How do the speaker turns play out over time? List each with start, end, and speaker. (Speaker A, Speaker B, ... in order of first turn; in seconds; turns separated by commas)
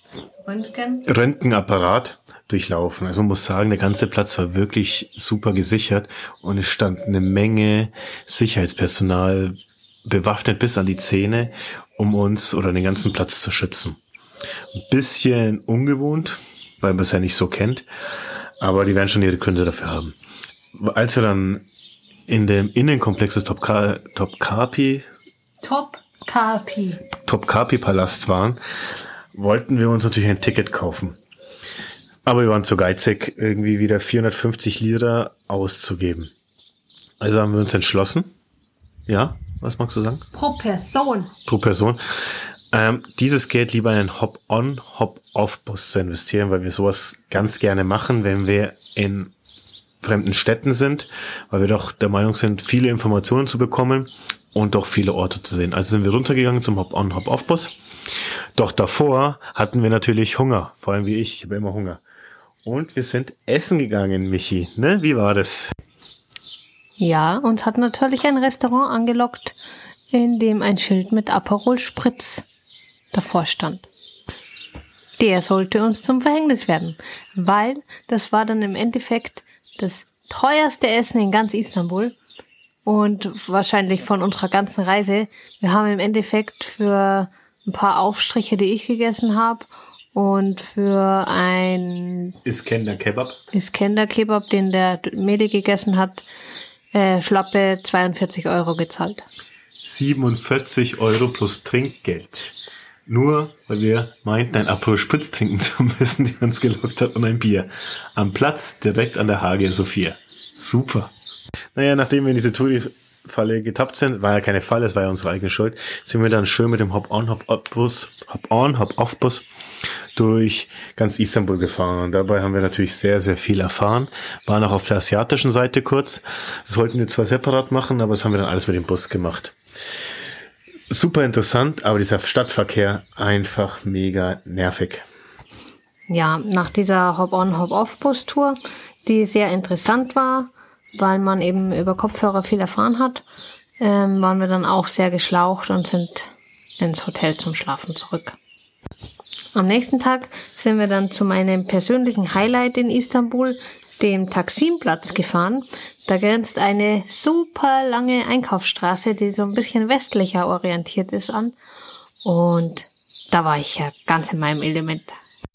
Speaker A: 0.4-1.0, Speaker B: 1.1-14.0, Speaker B: 14.7-17.9, Speaker B: 18.6-20.1, Speaker B: 20.7-21.6, Speaker B: 22.3-25.1, Speaker A: 25.6-27.0, Speaker B: 27.2-28.6, Speaker B: 29.3-31.2, Speaker B: 32.2-36.3, Speaker B: 37.2-38.3, Speaker B: 39.1-40.3, Speaker A: 40.3-41.3, Speaker B: 41.5-49.3, Speaker B: 50.0-57.7, Speaker B: 58.5-62.0, Speaker B: 62.6-65.7, Speaker A: 67.0-69.5, Speaker A: 70.1-72.4, Speaker A: 73.1-73.9, Speaker A: 75.2-82.1, Speaker A: 82.8-92.4, Speaker B: 92.4-93.4, Speaker A: 93.5-96.2, Speaker A: 96.9-99.2, Speaker B: 99.8-111.1, Speaker B: 111.7-119.5, Speaker B: 120.1-129.5, Speaker B: 130.9-135.1, Speaker A: 136.1-143.2, Speaker A: 143.8-148.4, Speaker A: 149.5-161.5, Speaker A: 162.2-165.1